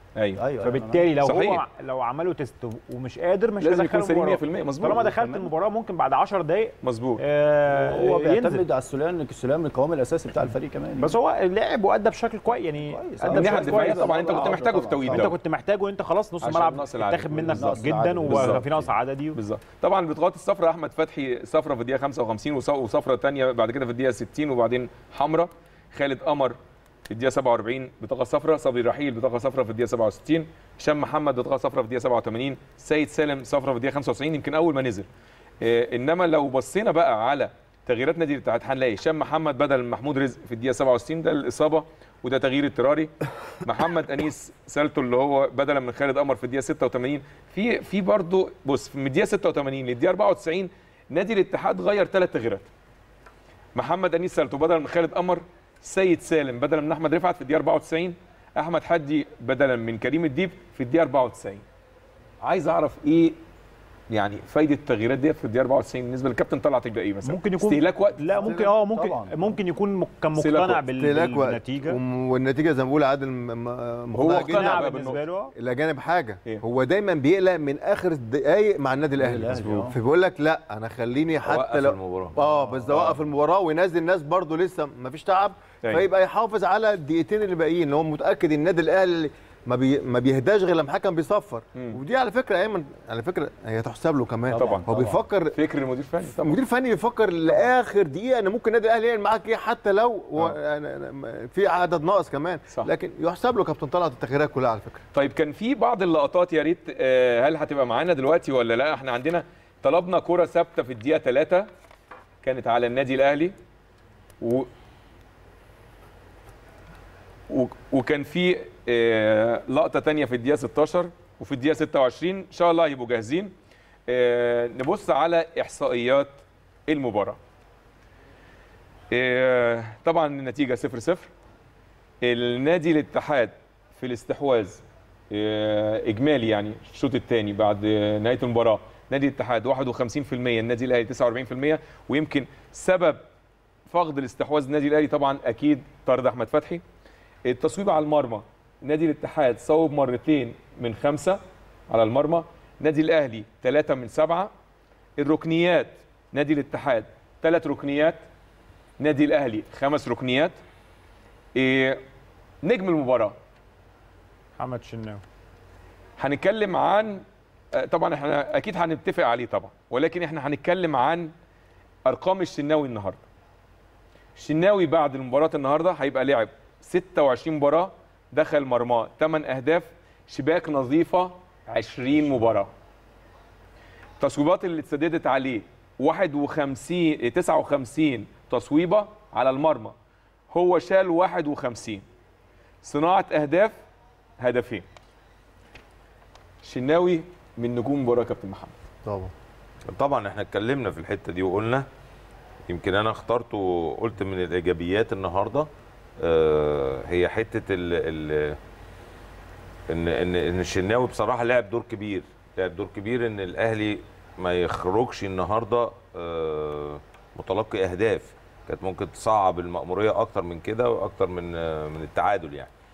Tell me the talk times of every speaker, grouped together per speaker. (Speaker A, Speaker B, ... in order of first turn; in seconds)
Speaker A: 0.1-0.4, 1.2-1.6, 3.6-5.1, 6.8-7.2, 13.3-15.3, 16.4-18.6, 19.3-26.6, 27.1-35.1, 35.6-43.1, 43.6-52.7, 53.7-61.6, 62.4-63.4, 64.1-68.4, 70.3-70.8, 74.1-75.2, 79.3-79.9, 82.9-83.2, 94.6-94.9, 95.5-96.6, 105.1-111.7, 112.4-113.5, 114.4-114.7, 117.5-123.5, 124.1-127.4, 129.1-131.3, 132.2-143.2, 143.8-146.8, 147.4-154.5, 155.2-158.2, 159.0-160.6, 161.5-162.0, 162.6-163.3, 166.2-167.2, 167.7-171.3, 172.1-173.2, 174.3-182.7, 184.2-189.9, 190.5-192.0, 192.8-193.7, 194.4-194.8, 196.6-198.8
Speaker B: 0.3-1.4, 4.9-5.5, 7.7-11.2, 12.8-15.3, 17.5-18.9, 68.2-69.6, 79.2-79.9, 94.5-95.2
Speaker C: 0.6-8.6, 11.0-19.4, 67.2-72.0, 74.2-75.5, 164.6-165.2
Speaker D: 68.4-68.7, 70.9-74.8, 75.5-95.6, 96.2-105.0, 199.0-199.3
Speaker E: 81.4-82.4, 199.9-201.8, 202.7-205.7, 206.2-208.6, 209.9-222.7